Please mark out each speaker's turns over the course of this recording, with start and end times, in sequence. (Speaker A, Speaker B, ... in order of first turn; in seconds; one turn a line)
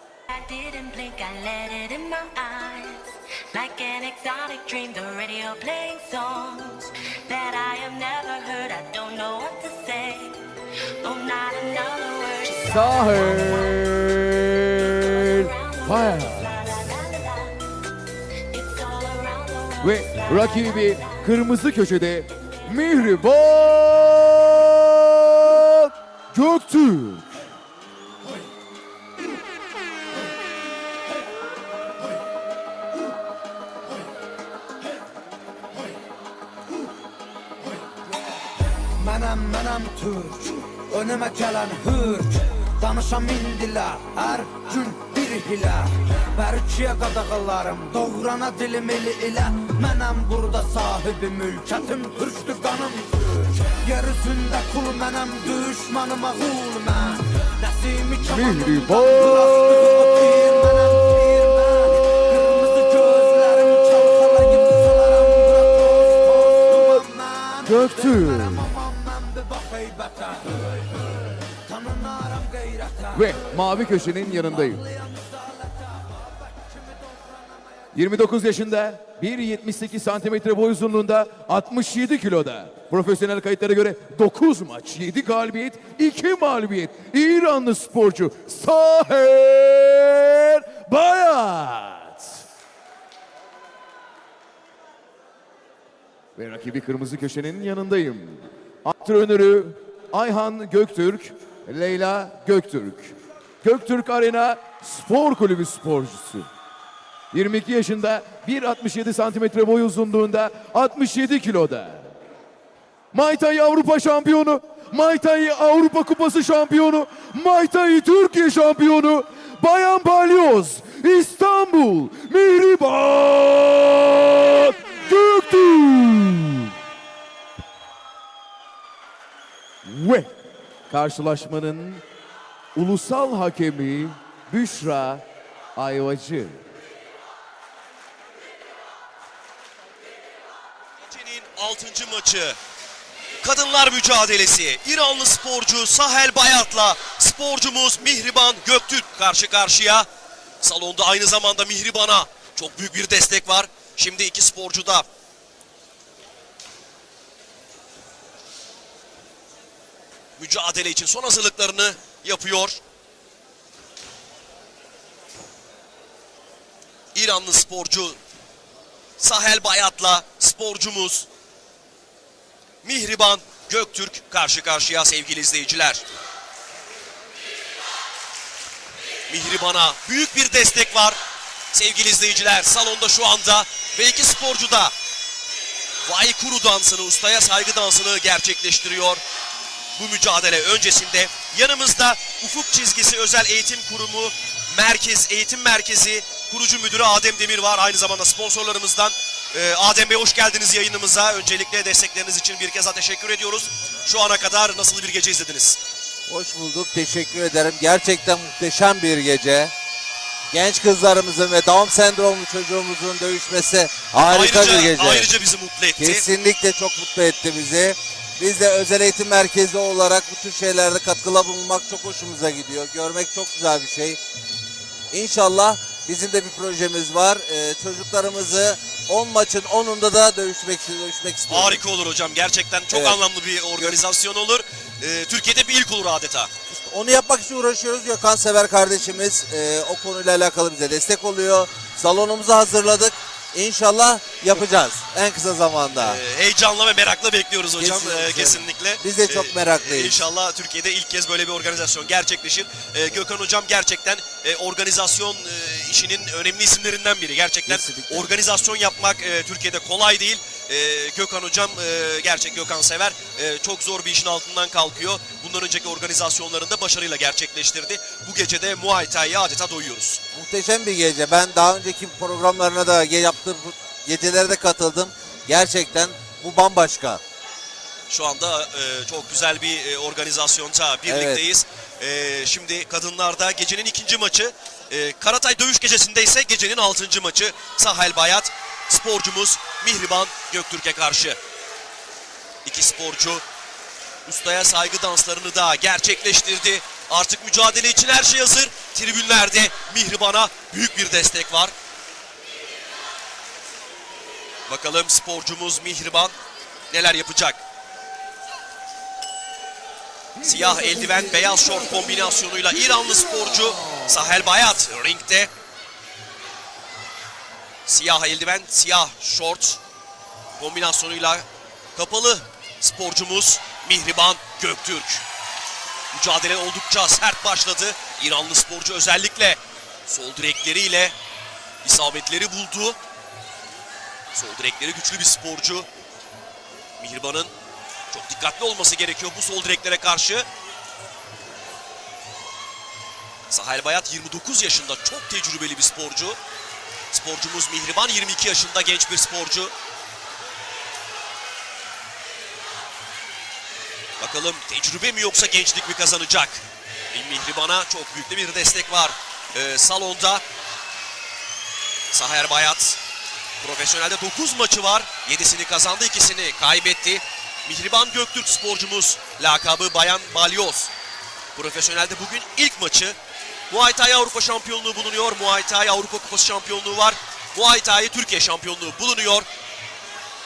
Speaker A: 0.3-13.9
Speaker B: 12.5-16.7
Speaker A: 14.8-17.6
Speaker A: 18.5-21.3
Speaker B: 19.8-27.4
Speaker C: 38.9-77.9
Speaker B: 58.2-60.3
Speaker B: 62.1-62.5
Speaker B: 64.7-67.0
Speaker B: 67.6-68.7
Speaker B: 73.1-74.8
Speaker B: 77.9-92.4
Speaker B: 96.3-106.5
Speaker B: 107.3-112.1
Speaker B: 113.1-126.7
Speaker B: 129.8-130.3
Speaker B: 130.9-132.0
Speaker B: 132.8-135.2
Speaker B: 135.8-136.6
Speaker D: 141.1-142.6
Speaker D: 143.4-150.1
Speaker D: 150.6-155.1
Speaker D: 160.4-162.8
Speaker D: 167.1-168.2
Speaker D: 169.2-171.3
Speaker D: 172.8-176.1
Speaker D: 179.3-181.2
Speaker D: 181.7-184.9
Speaker D: 186.0-189.2
Speaker D: 189.9-205.8
Speaker E: 206.3-209.7
Speaker E: 210.5-215.3
Speaker D: 214.3-216.2
Speaker E: 216.0-224.2
Speaker E: 225.1-231.8
Speaker D: 231.5-236.5
Speaker E: 232.9-233.2
Speaker E: 236.7-246.2
Speaker D: 245.9-270.2
Speaker E: 247.8-250.2
Speaker E: 257.7-258.3
Speaker E: 270.3-277.2
Speaker D: 278.1-291.4
Speaker E: 281.1-281.4
Speaker D: 292.6-293.4
Speaker D: 294.2-301.7
Speaker D: 304.7-306.3
Speaker D: 306.9-307.6
Speaker D: 310.4-315.5
Speaker B: 310.4-312.3
Speaker B: 313.3-314.1
Speaker D: 317.9-319.8
Speaker D: 320.6-321.4
Speaker D: 321.9-325.2
Speaker D: 326.1-331.1
Speaker D: 331.8-333.0
Speaker D: 334.3-335.9
Speaker D: 337.0-337.5
Speaker D: 338.1-340.5
Speaker D: 343.5-346.4
Speaker D: 347.1-349.7
Speaker D: 354.2-360.4
Speaker D: 362.1-363.0
Speaker D: 363.6-370.9
Speaker D: 371.6-373.2
Speaker D: 373.7-379.5